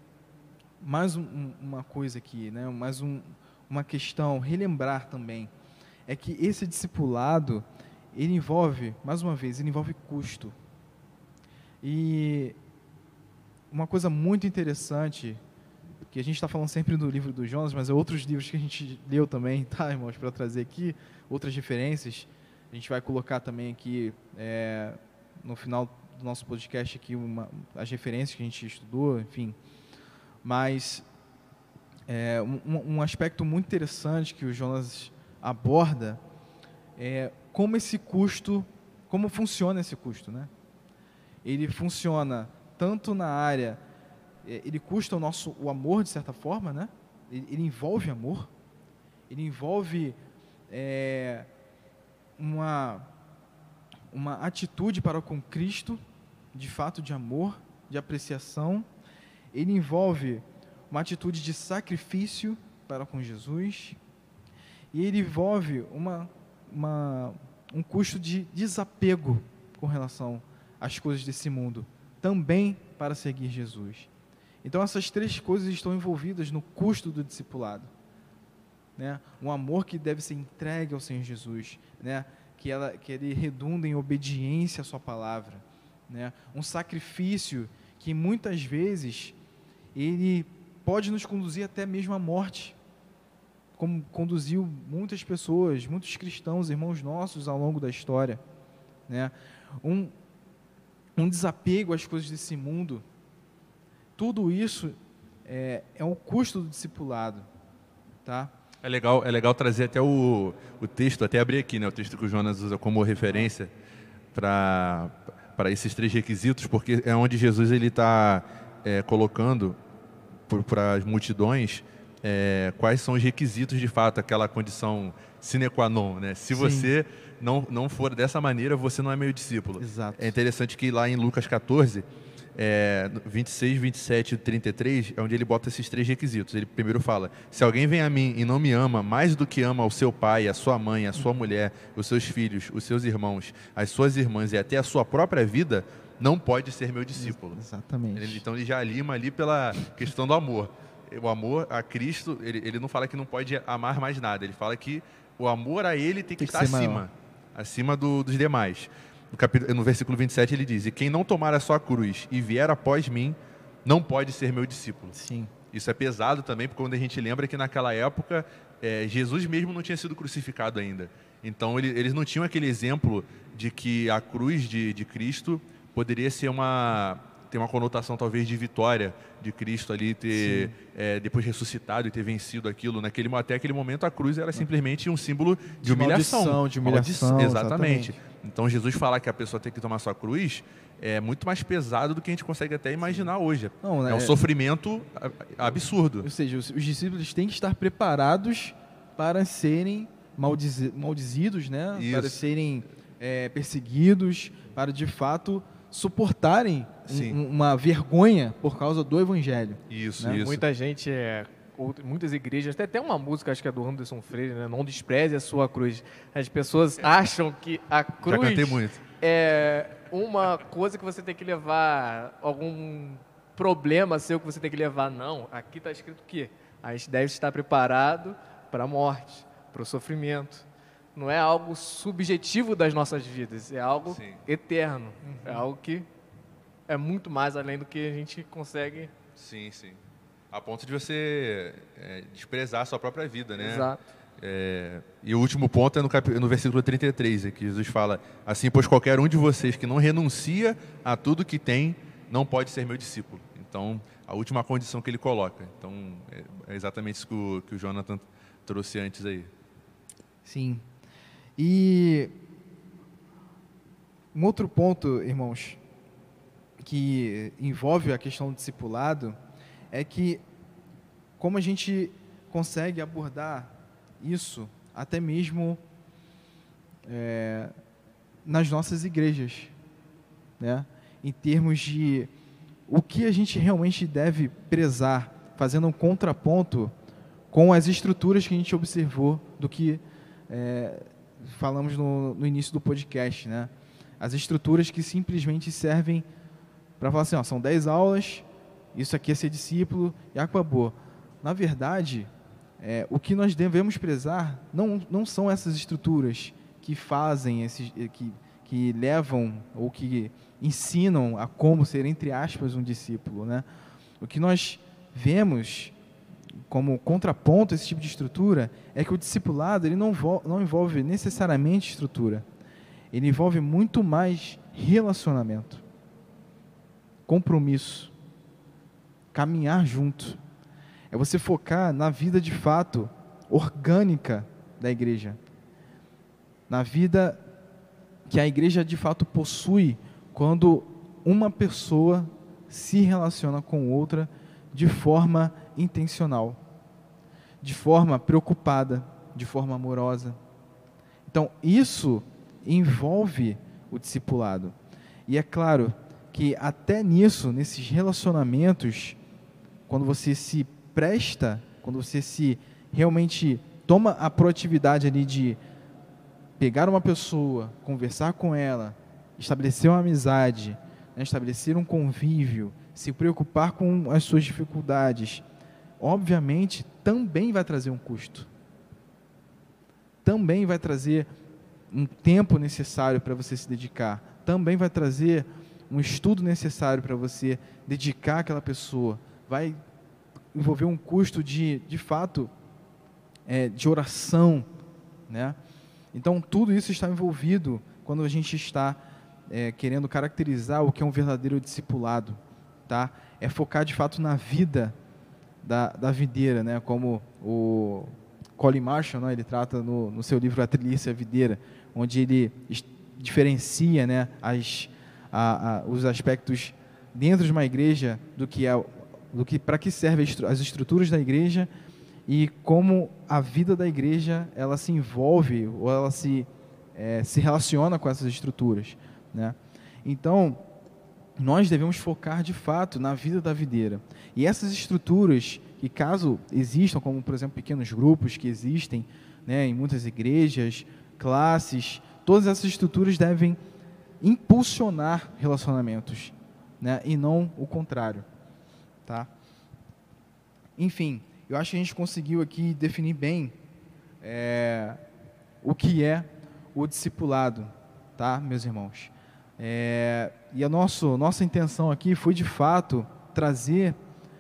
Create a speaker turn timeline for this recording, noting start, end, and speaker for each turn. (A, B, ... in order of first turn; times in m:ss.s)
0:00.8-0:05.5 A
0:06.1-0:10.6 A
0:11.8-0:12.6 A
0:13.7-0:15.4 A
0:16.1-0:29.6 A
0:30.4-0:31.1 A
0:32.1-0:36.2 A
0:37.0-0:40.5 A
0:41.4-0:43.8 A
0:44.4-0:48.5 A
0:49.3-0:50.2 A
0:50.7-0:51.5 A
0:52.4-0:53.1 A
0:54.1-0:56.0 A
0:56.5-0:58.9 A
0:59.5-1:04.0 A
1:04.9-1:14.1 A
1:14.6-1:17.9 A
1:19.0-1:29.4 A
1:30.0-1:32.8 A
1:33.8-1:38.4 A
1:39.1-1:40.1 A
1:41.2-1:43.0 A
1:44.2-1:47.5 A
1:48.2-1:48.5 A
1:48.8-1:53.7 B
1:54.3-1:59.8 B
2:00.5-2:12.0 B
2:06.5-2:07.0 A
2:09.8-2:10.4 A
2:12.6-2:27.6 B
2:27.2-2:28.4 A
2:28.2-2:45.1 B
2:36.4-2:37.0 A
2:45.1-2:45.5 A
2:45.7-3:16.3 B
3:00.3-3:00.8 A
3:05.8-3:08.2 A
3:13.8-3:14.4 A
3:16.2-3:30.4 A
3:22.0-3:22.4 B
3:27.1-3:27.4 B
3:29.9-3:30.6 B
3:30.3-3:56.1 C
3:38.2-3:39.0 B
3:54.1-3:54.4 B
3:55.2-3:55.7 A
3:56.9-3:59.1 C
3:59.4-4:00.0 B
4:00.5-4:19.5 B
4:03.6-4:04.0 C
4:20.4-4:20.9 A
4:21.6-4:22.3 A
4:24.3-4:25.8 A
4:26.8-4:29.4 A
4:29.9-4:30.4 A
4:31.4-4:35.8 A
4:37.1-4:37.7 A
4:38.4-4:39.7 A
4:40.6-4:42.3 A
4:42.9-4:46.9 A
4:47.5-4:56.3 A
4:57.0-5:02.3 A
5:02.8-5:13.6 A
5:14.2-5:16.0 A
5:16.7-5:22.4 A
5:23.1-5:25.8 A
5:27.3-5:28.1 A
5:29.3-5:30.4 A
5:31.1-5:35.4 A
5:36.7-5:37.4 A
5:38.3-5:46.6 A
5:47.6-5:50.4 A
5:51.3-5:54.8 A
5:55.3-5:59.2 A
5:59.9-6:05.6 A
6:06.6-6:15.4 A
6:16.0-6:18.5 A
6:20.2-6:21.3 A
6:21.9-6:29.8 A
6:30.5-6:32.5 A
6:33.5-6:34.7 A
6:35.3-6:35.6 A
6:36.1-6:45.0 A
6:45.6-7:01.7 A
7:02.3-7:10.6 A
7:11.4-7:23.6 A
7:24.2-7:28.3 A
7:30.8-7:33.6 A
7:34.2-7:35.0 A
7:35.6-7:44.0 A